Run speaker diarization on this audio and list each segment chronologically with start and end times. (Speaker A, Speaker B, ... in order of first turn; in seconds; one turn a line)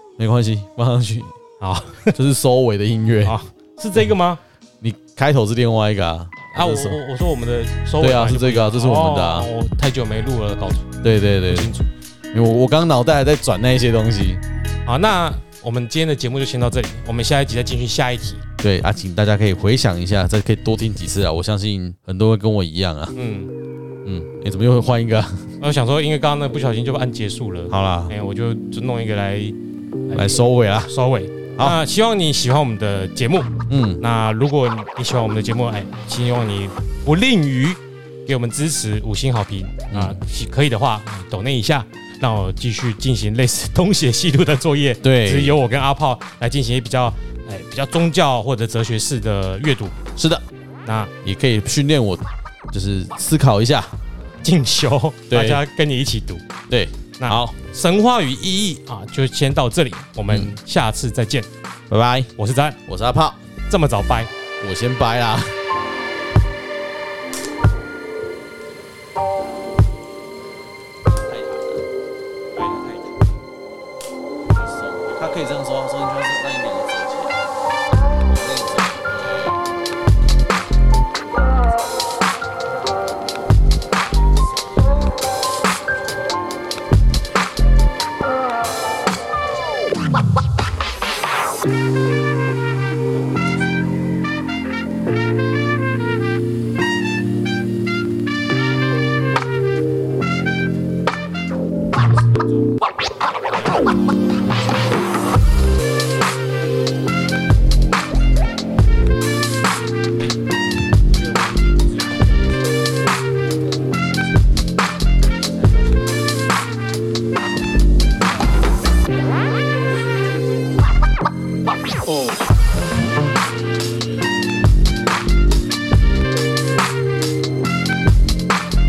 Speaker A: 0.2-1.4
Speaker B: 1.6-2.1
Speaker A: 2.1-3.4
Speaker B: 3.2-4.4
Speaker A: 4.8-7.0
Speaker B: 6.5-10.9
Speaker A: 8.0-9.5
Speaker A: 11.0-11.7
Speaker B: 11.5-11.9
Speaker A: 12.3-14.4
Speaker B: 14.9-18.4
Speaker A: 18.6-23.1
Speaker B: 23.1-23.5
Speaker A: 24.1-25.4
Speaker B: 25.6-29.6
Speaker A: 27.7-28.1
Speaker B: 30.1-50.0
Speaker A: 30.1-30.9
Speaker A: 33.7-34.0
Speaker A: 39.9-40.2
Speaker A: 45.0-45.6
Speaker A: 50.2-50.4
Speaker B: 50.9-51.1
Speaker A: 51.2-54.0
Speaker B: 54.4-56.4
Speaker A: 55.3-55.6
Speaker A: 56.7-57.6
Speaker B: 57.2-61.5
Speaker A: 61.9-62.3
Speaker B: 62.4-62.8
Speaker A: 62.9-63.4
Speaker B: 63.7-64.3
Speaker A: 64.6-65.6
Speaker A: 71.0-71.9
Speaker B: 72.5-73.3
Speaker A: 74.5-77.4
Speaker B: 75.1-75.4
Speaker A: 78.2-79.6
Speaker A: 81.4-81.6
Speaker B: 111.1-112.4
Speaker B: 115.5-116.2